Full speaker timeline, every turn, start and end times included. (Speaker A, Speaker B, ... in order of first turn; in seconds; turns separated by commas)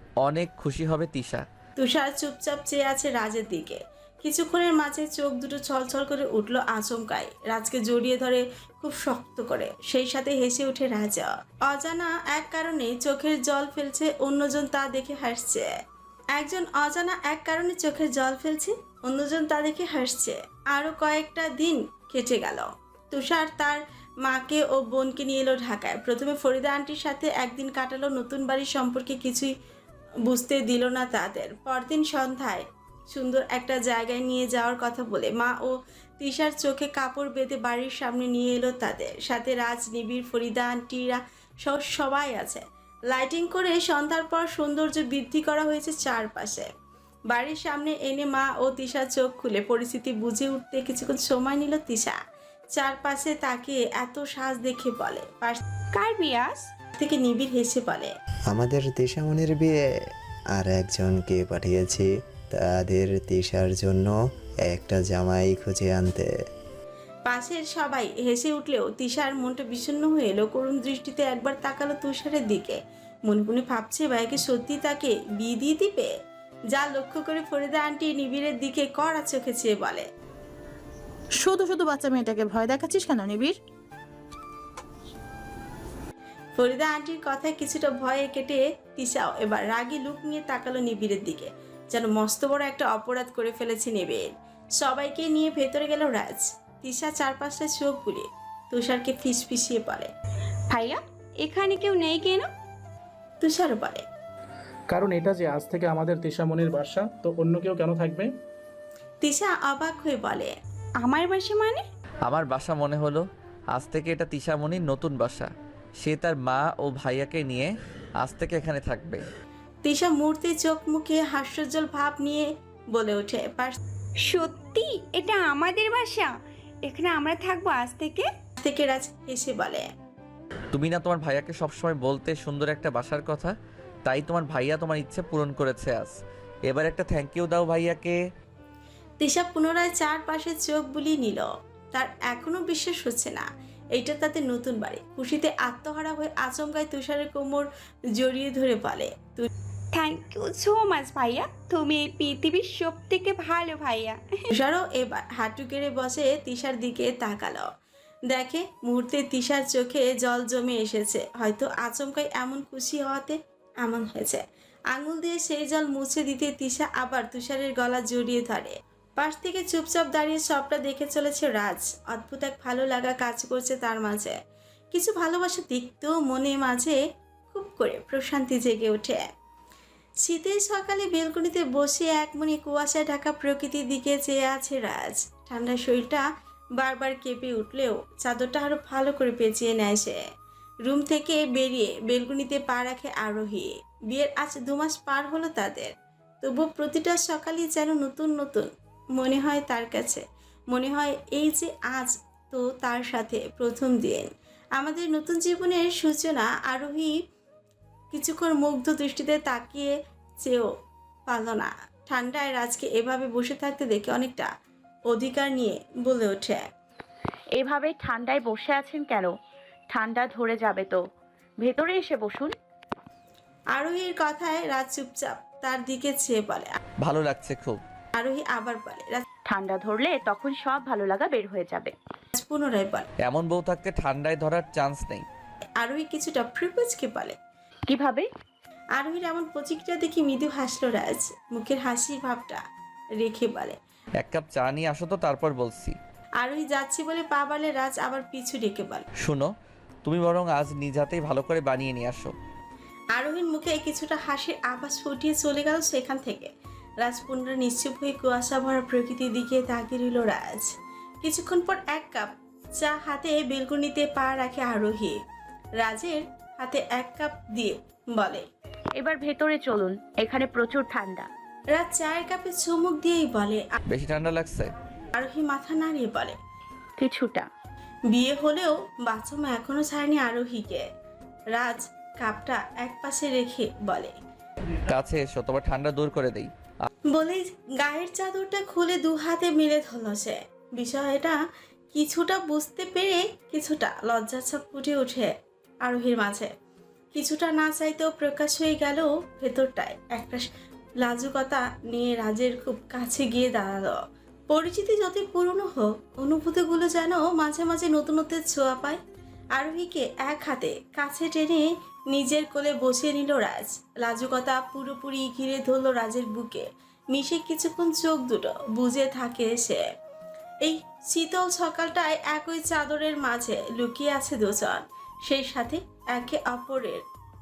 Speaker A: 0.2-1.4, Speaker B: 1.8-15.7, Speaker B: 16.4-29.5, Speaker B: 30.3-46.7, Speaker B: 47.3-52.2, Speaker B: 52.7-55.6, Speaker C: 55.9-56.7, Speaker B: 57.0-58.1, Speaker D: 58.5-59.8, Speaker D: 60.5-66.3, Speaker B: 67.3-76.1, Speaker B: 76.7-80.1, Speaker E: 81.4-83.5, Speaker B: 86.6-100.1, Speaker C: 100.7-102.5, Speaker B: 103.4-104.0, Speaker F: 104.9-108.3, Speaker B: 109.2-110.5, Speaker C: 111.0-111.8, Speaker A: 112.3-119.2, Speaker B: 119.8-123.8, Speaker C: 124.2-126.3, Speaker C: 126.9-128.3, Speaker B: 128.6-129.9, Speaker A: 130.7-133.6, Speaker A: 134.1-136.2, Speaker A: 136.7-138.2, Speaker B: 139.2-149.5, Speaker C: 149.9-154.4, Speaker B: 154.5-157.7, Speaker B: 158.3-164.4, Speaker B: 164.9-174.4, Speaker B: 174.9-177.0, Speaker B: 177.5-179.3, Speaker B: 180.2-186.2, Speaker B: 186.8-190.2, Speaker B: 190.8-207.2, Speaker B: 208.1-210.7, Speaker B: 211.3-214.5, Speaker B: 215.1-216.7, Speaker G: 217.6-219.3, Speaker G: 219.9-221.0, Speaker G: 221.6-222.5, Speaker B: 223.7-226.8, Speaker A: 227.0-227.8, Speaker B: 228.2-229.2, Speaker G: 229.5-231.9, Speaker B: 232.3-233.1, Speaker A: 233.2-235.2, Speaker B: 235.8-237.4, Speaker G: 237.9-238.3, Speaker B: 239.0-242.6, Speaker B: 243.2-243.8, Speaker A: 244.2-246.0, Speaker B: 246.4-249.1, Speaker A: 249.2-249.5, Speaker A: 250.1-252.3, Speaker B: 253.2-256.5, Speaker B: 257.0-265.2, Speaker B: 265.8-268.5, Speaker G: 269.0-271.3, Speaker B: 271.7-273.7, Speaker A: 273.9-274.7, Speaker B: 275.1-276.4, Speaker G: 277.0-277.5, Speaker B: 278.1-280.9, Speaker B: 281.5-284.2, Speaker A: 284.9-286.5, Speaker B: 287.1-291.4, Speaker B: 291.9-296.5, Speaker B: 297.1-300.5, Speaker B: 301.0-309.0, Speaker B: 309.6-319.8, Speaker B: 320.6-327.0